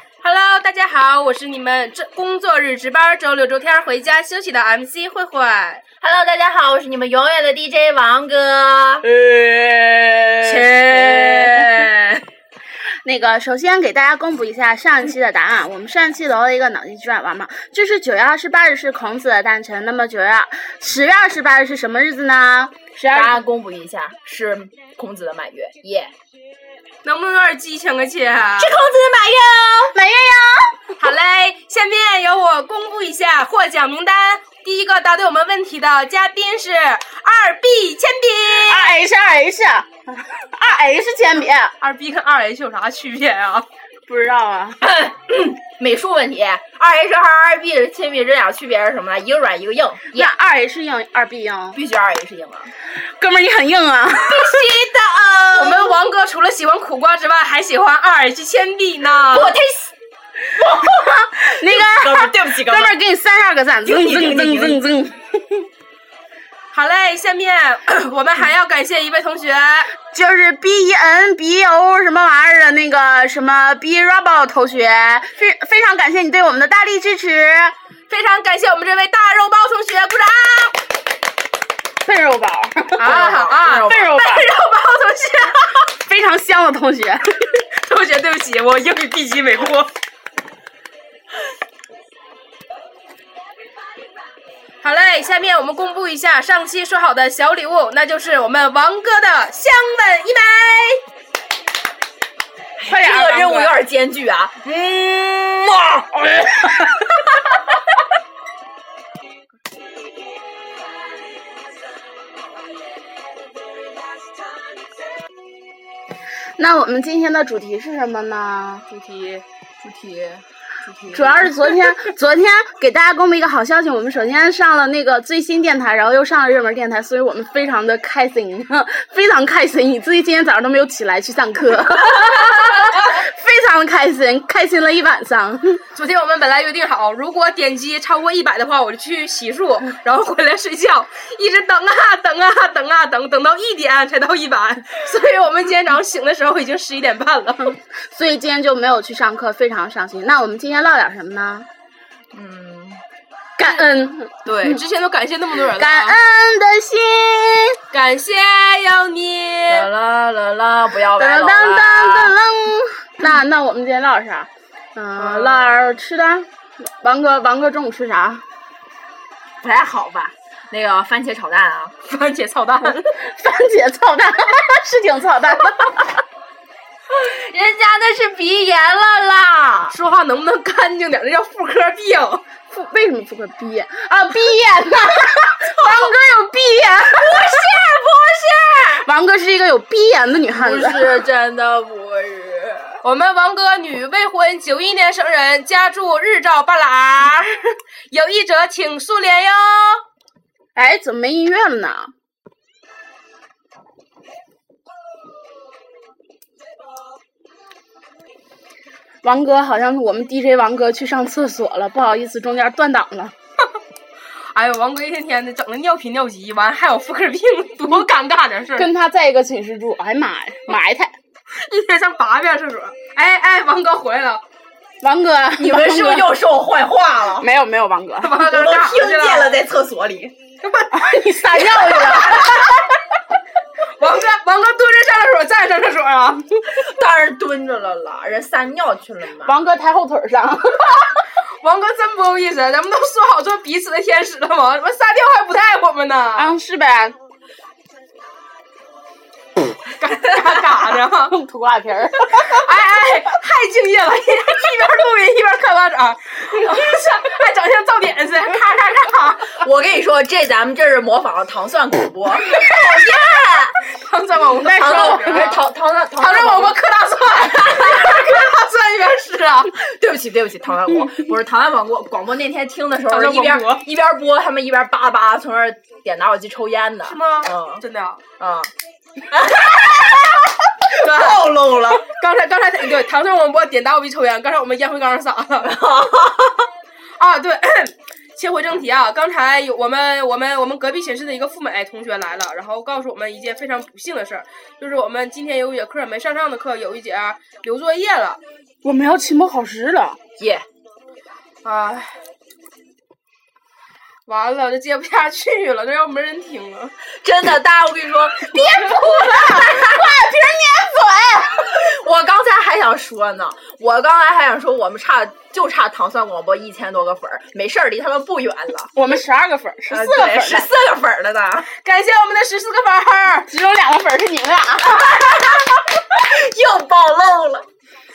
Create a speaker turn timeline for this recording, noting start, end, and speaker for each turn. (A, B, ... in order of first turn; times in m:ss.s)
0:00.2-0:05.8 A
0:06.0-0:11.8 B
0:10.4-0:12.1 A
0:13.0-0:23.4 C
0:23.1-0:26.1 B
0:27.0-0:28.8 A
0:28.6-0:30.0 B
0:29.9-0:30.9 C
0:31.0-0:38.9 A
0:38.5-0:41.7 C
0:41.8-0:43.6 A
0:44.1-0:44.8 C
0:44.8-0:50.3 B
0:50.1-0:51.8 C
0:51.7-0:52.7 B
0:52.9-0:54.7 C
0:54.1-0:56.0 B
0:55.5-0:59.6 A
0:59.3-0:59.9 B
1:00.6-1:03.0 B
1:00.8-1:05.7 C
1:03.8-1:04.8 B
1:06.7-1:09.9 A
1:10.0-1:17.7 C
1:18.1-1:20.8 A
1:22.0-1:23.3 C
1:23.0-1:25.9 A
1:23.1-1:24.2 B
1:23.9-1:24.5 C
1:26.0-1:27.4 C
1:27.7-1:29.9 A
1:34.8-1:41.0 A
1:42.8-1:44.8 B
1:42.8-1:43.8 C
1:44.7-1:46.9 C
1:56.6-1:58.8 C
1:58.9-1:59.4 A
1:59.8-2:01.6 B
2:01.1-2:15.8 C
2:15.9-2:27.8 A
2:27.9-2:31.7 C
2:32.3-2:33.0 B
2:33.6-2:34.8 C
2:34.4-2:36.2 A
2:35.6-2:37.8 C
2:37.9-2:39.9 A
2:39.7-2:42.4 B
2:41.0-2:48.4 C
2:45.2-2:45.8 A
2:49.6-2:52.0 B
2:52.0-2:53.1 A
2:52.8-2:56.2 C
2:57.1-3:00.0 B
2:59.9-3:02.4 A
3:02.7-3:07.7 C
3:05.7-3:06.0 B
3:07.1-3:09.0 B
3:08.9-3:11.3 C
3:10.5-3:13.0 B
3:13.0-3:20.0 A
3:20.7-3:22.1 C
3:29.2-3:33.3 C
3:34.5-3:38.9 A
3:38.7-3:41.1 C
3:41.6-3:44.4 A
3:45.0-3:46.4 C
3:45.6-3:47.5 B
3:47.3-3:48.4 C
3:48.2-3:49.6 A
3:48.4-3:50.3 B
3:50.6-3:52.7 A
3:50.9-3:52.9 C
3:51.8-3:52.1 B
3:54.0-3:56.6 A
3:56.7-3:59.6 B
3:59.4-4:01.1 C
4:01.6-4:06.5 A
4:06.4-4:07.2 C
4:10.0-4:11.3 A
4:11.3-4:12.6 C
4:12.4-4:19.6 A
4:19.6-4:23.7 B
4:22.4-4:25.6 A
4:24.6-4:25.6 C
4:24.7-4:26.8 B
4:26.2-4:29.7 A
4:27.6-4:28.3 B
4:29.7-4:37.8 B
4:33.1-4:33.8 A
4:37.0-4:38.2 A
4:38.4-4:38.7 B
4:39.3-4:42.1 B
4:40.9-4:45.7 A
4:45.6-4:46.7 B
4:47.2-4:58.4 A
4:58.8-5:00.2 C
5:00.4-5:00.6 B
5:01.6-5:02.1 A
5:04.2-5:06.9 A
5:07.2-5:10.0 B
5:08.4-5:11.8 C
5:11.7-5:18.9 B
5:18.9-5:20.7 C
5:19.9-5:21.7 B
5:21.7-5:23.5 A
5:23.4-5:25.1 C
5:24.9-5:27.6 B